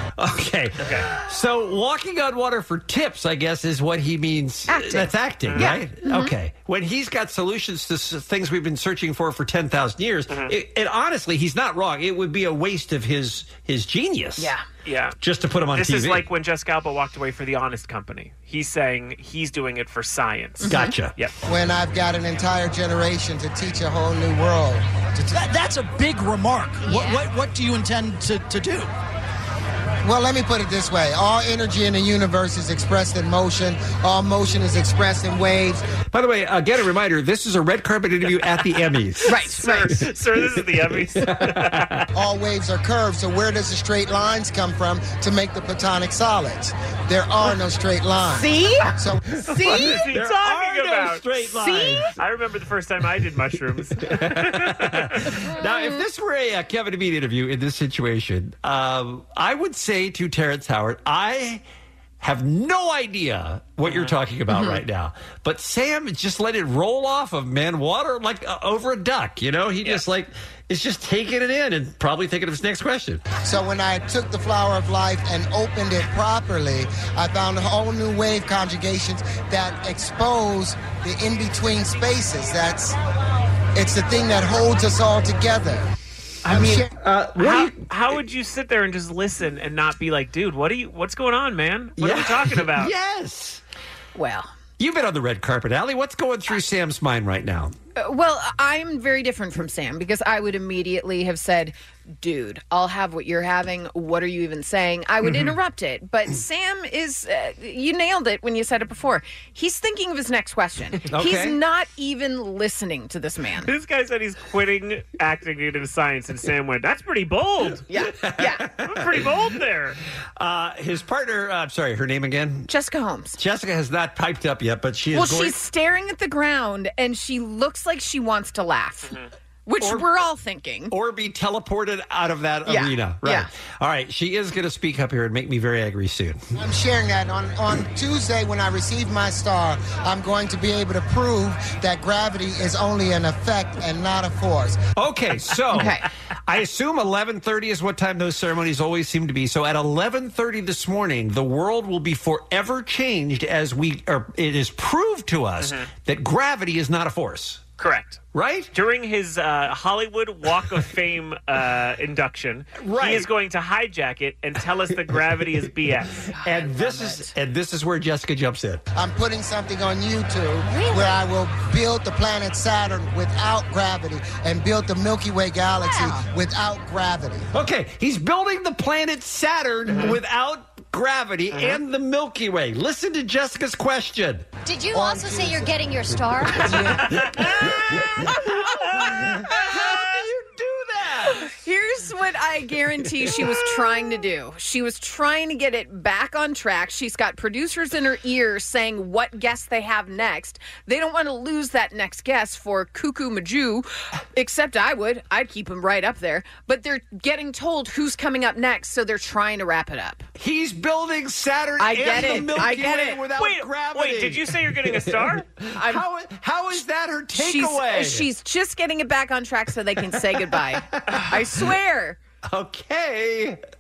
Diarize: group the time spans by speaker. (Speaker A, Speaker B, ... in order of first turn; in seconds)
Speaker A: 0.2-14.5, 15.2-16.2, 20.6-21.1, 36.1-40.0, 41.2-42.0, 49.6-52.1, 54.0-61.6, 62.2-73.3, 87.0-87.8, 92.0-93.6, 94.8-97.8, 111.1-111.6, 117.9-119.3, 120.4-122.7, 123.4-125.6, 129.8-130.1, 130.9-136.4, 145.0-157.6, 158.3-158.7, 162.8-163.3, 166.4-168.8, 177.5-184.5, 188.2-191.5, 210.4-218.3, 220.8-221.3, 222.5-223.6
Speaker B: 0.8-1.1, 5.5-5.8, 10.3-10.5, 14.8-15.2, 15.7-21.4, 39.3-42.0, 49.6-51.4, 52.2-55.3, 63.8-64.2, 86.5-86.9, 87.4-92.9, 113.6-117.8, 118.8-120.0, 155.6-155.9, 157.8-158.2, 158.7-166.3, 179.9-180.2, 181.5-181.8, 213.4-215.5
Speaker C: 4.7-6.3, 14.4-14.6, 20.6-20.9, 26.8-27.2, 39.3-40.0, 48.3-48.9, 49.5-50.0, 51.6-52.1, 64.5-64.8, 94.2-94.5, 98.0-113.7, 117.9-118.7, 122.7-123.4, 125.1-130.9, 132.7-133.5, 145.8-146.1, 166.3-167.3, 188.3-188.6, 191.3-210.3, 211.8-213.2, 215.8-216.0, 217.4-222.2
Speaker D: 21.5-25.4, 30.0-35.8, 42.1-49.4, 73.4-83.0, 83.8-85.9, 86.5-86.9, 136.6-144.8, 168.9-177.5, 184.9-185.8, 186.5-187.2
Speaker E: 25.3-28.9
Speaker F: 175.8-176.2, 184.6-186.9